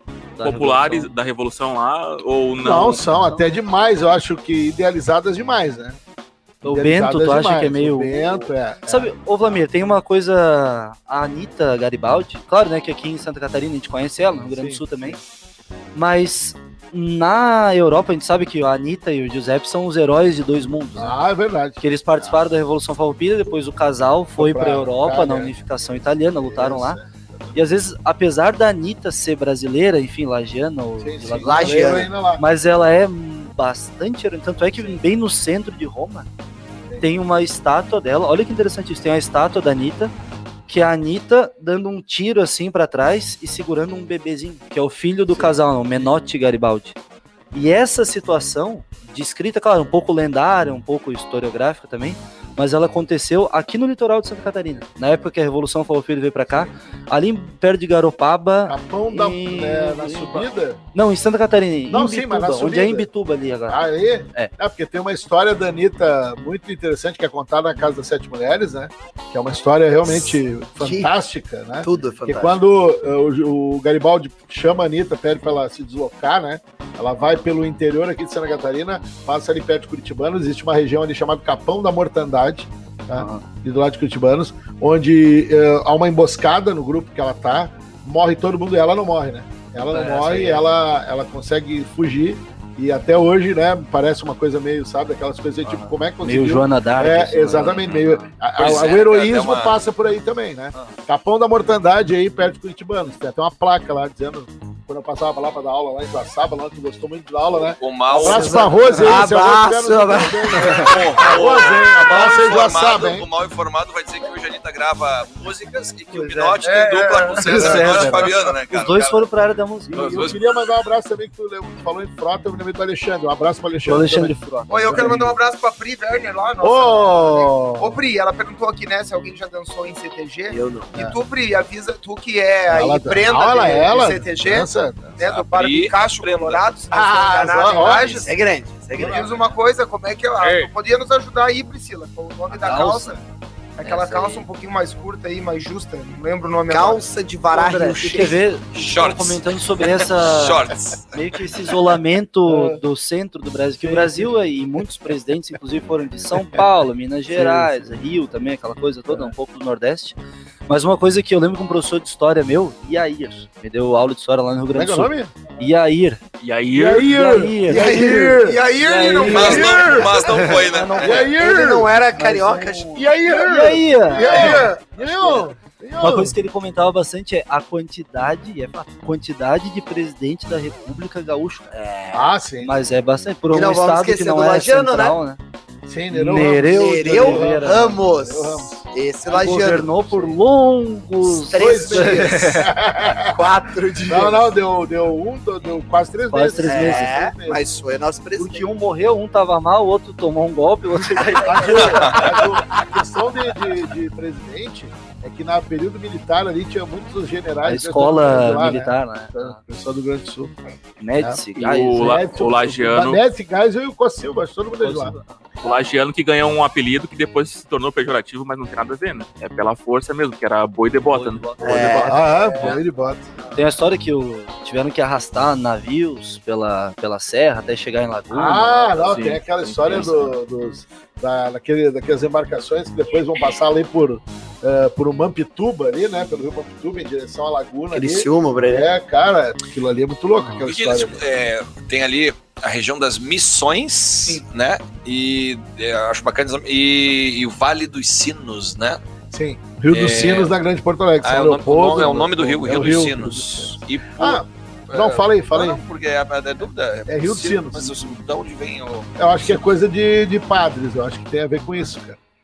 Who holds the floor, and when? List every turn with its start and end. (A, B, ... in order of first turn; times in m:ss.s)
0:00.4-0:01.1 A
0:00.4-0:03.0 B
0:02.6-0:06.0 C
0:06.6-0:09.6 C
0:06.6-0:15.2 A
0:14.5-0:15.1 C
0:15.9-0:21.2 A
0:21.0-0:22.4 C
0:21.8-0:27.0 A
0:24.3-0:25.6 C
0:26.3-0:27.6 C
0:27.5-0:36.3 A
0:31.0-0:32.4 C
0:31.4-0:32.1 D
0:36.9-0:37.1 C
0:37.0-0:40.1 A
0:40.7-0:47.0 A
0:45.3-0:46.1 C
0:47.5-1:04.5 A
0:58.7-1:00.8 C
1:01.9-1:03.1 C
1:03.7-1:53.3 C
1:10.1-1:11.1 D
1:11.8-1:12.6 D
1:23.1-1:23.4 A
1:29.8-1:30.6 A
1:35.6-1:38.3 A
1:38.6-1:39.8 E
1:47.8-1:48.8 E
1:48.1-1:51.2 D
1:50.6-1:59.2 E
1:56.1-1:56.6 A
1:56.6-1:58.3 F
1:57.4-2:00.3 A
1:57.6-1:58.1 C
1:59.9-2:04.4 C
1:59.9-2:00.6 E
2:03.8-2:05.3 A
2:04.7-2:18.4 F
2:04.9-2:05.3 C
2:06.6-2:08.0 C
2:10.5-2:10.9 D
2:12.7-2:15.2 C
2:15.2-2:16.6 E
2:16.9-2:18.3 C
2:18.2-2:19.3 D
2:19.0-2:23.2 F
2:19.0-2:19.3 C
2:22.5-2:23.2 A
2:23.8-2:28.1 F
2:23.8-2:24.4 D
2:26.7-2:28.4 D
2:27.8-2:40.2 A
2:28.7-2:31.4 E
2:32.5-2:32.8 C
2:33.8-2:34.3 C
2:37.3-2:38.0 C
2:39.1-2:39.3 C
2:40.7-2:46.2 A
2:44.7-2:45.3 C
2:46.4-2:47.1 B
2:46.7-2:48.7 C
2:46.8-2:48.0 A
2:47.7-2:50.2 F
2:47.8-2:48.1 D
2:48.7-2:51.3 A
2:49.2-2:50.5 C
2:49.3-2:51.3 E
2:51.0-2:56.3 C
2:51.3-2:53.1 D
2:52.2-2:54.6 A
2:53.0-2:54.8 F
2:54.2-2:54.8 D
2:56.0-3:05.4 A
3:02.1-3:02.8 C
3:03.5-3:05.2 D
3:05.9-3:08.8 C
3:06.1-3:08.0 A
3:06.4-3:10.4 D
3:09.3-3:12.7 A
3:11.4-3:12.5 D
3:11.5-3:13.3 C
3:13.3-3:14.5 D
3:14.1-3:17.6 C
3:16.3-3:17.1 A
3:16.6-3:18.7 D
3:18.4-3:22.3 A
3:21.4-3:30.5 C
3:21.7-3:22.4 E
3:27.6-3:29.6 A
3:31.0-3:32.3 A
3:31.6-3:33.2 B
3:32.0-3:35.1 C
3:34.8-3:35.5 A
3:35.6-3:41.9 B
3:41.1-3:42.8 A
3:41.6-3:42.2 D
3:41.8-3:43.3 C
3:42.0-3:42.8 F
3:43.5-3:50.3 A
3:48.3-4:01.2 C
3:57.9-3:58.9 D
4:00.4-4:00.7 A
4:00.6-4:09.0 E
4:09.3-4:15.8 C
4:09.9-4:10.5 E
4:11.2-4:19.6 E
4:17.1-4:18.1 C
4:19.2-4:22.2 C